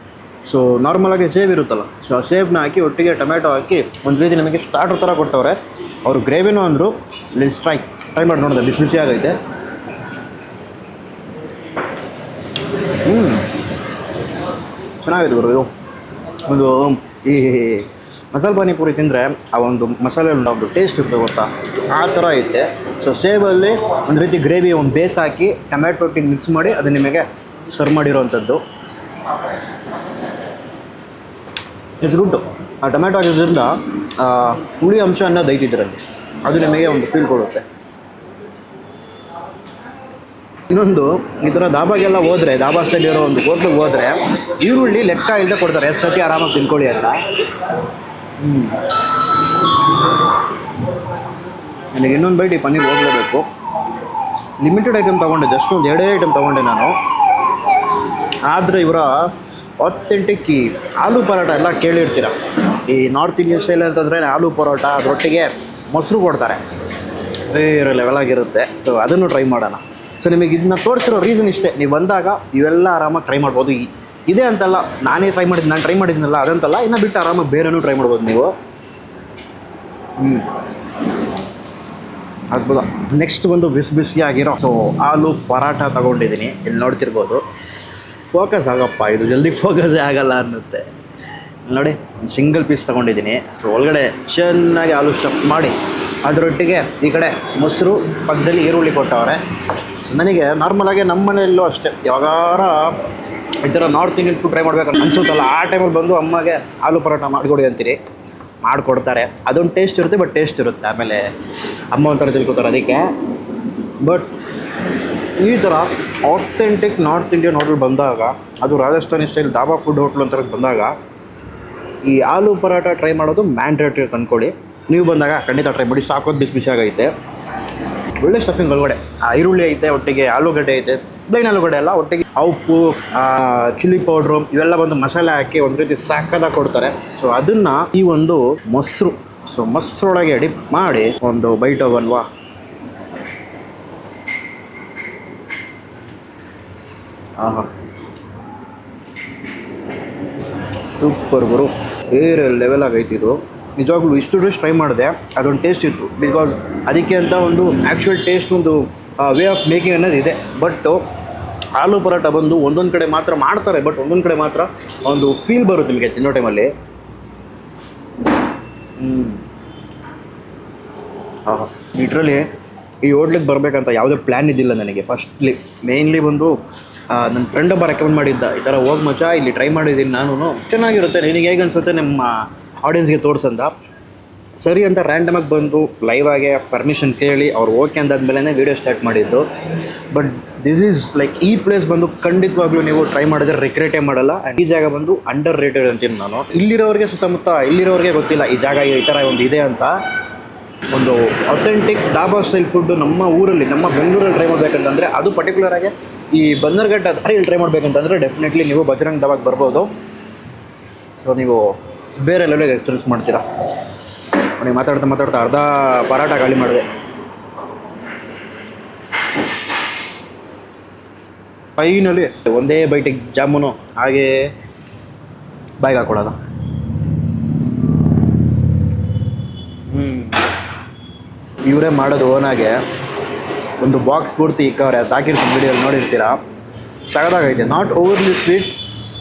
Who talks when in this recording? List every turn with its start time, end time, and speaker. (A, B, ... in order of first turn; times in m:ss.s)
0:00.4-0:09.4 A
0:13.0-0:13.5 A
0:15.0-0:15.7 A
0:16.4-0:28.6 A
0:32.0-0:37.6 A
0:40.7-0:47.2 A
0:48.4-0:48.9 A
0:51.9-0:53.5 A
0:54.6-0:57.0 A
0:58.4-0:59.2 A
0:59.8-1:06.6 A
1:07.5-1:18.5 A
1:20.2-1:20.5 A
1:22.5-1:27.4 A
1:28.3-1:30.9 A
1:31.7-1:39.4 A
1:40.0-1:43.0 A
1:43.6-1:48.0 A
1:48.6-1:51.3 A
1:51.9-1:53.1 A
1:54.0-1:54.3 A
1:55.4-2:00.9 A
2:02.0-2:07.1 A
2:08.2-2:22.3 A
2:27.4-2:27.7 A
2:30.9-2:41.0 A
2:41.8-2:46.7 A
2:49.0-2:49.4 A
2:51.4-2:52.5 A
2:53.0-2:56.6 A
2:57.1-3:03.7 A
3:04.6-3:09.4 A
3:10.1-3:20.0 A
3:20.9-3:29.9 A
3:31.2-3:33.4 A
3:34.6-3:36.8 A
3:41.8-3:44.5 A
3:45.8-3:46.4 A
3:49.9-3:50.4 A
3:51.6-3:52.8 A
3:53.8-3:56.4 A
3:57.0-3:58.8 A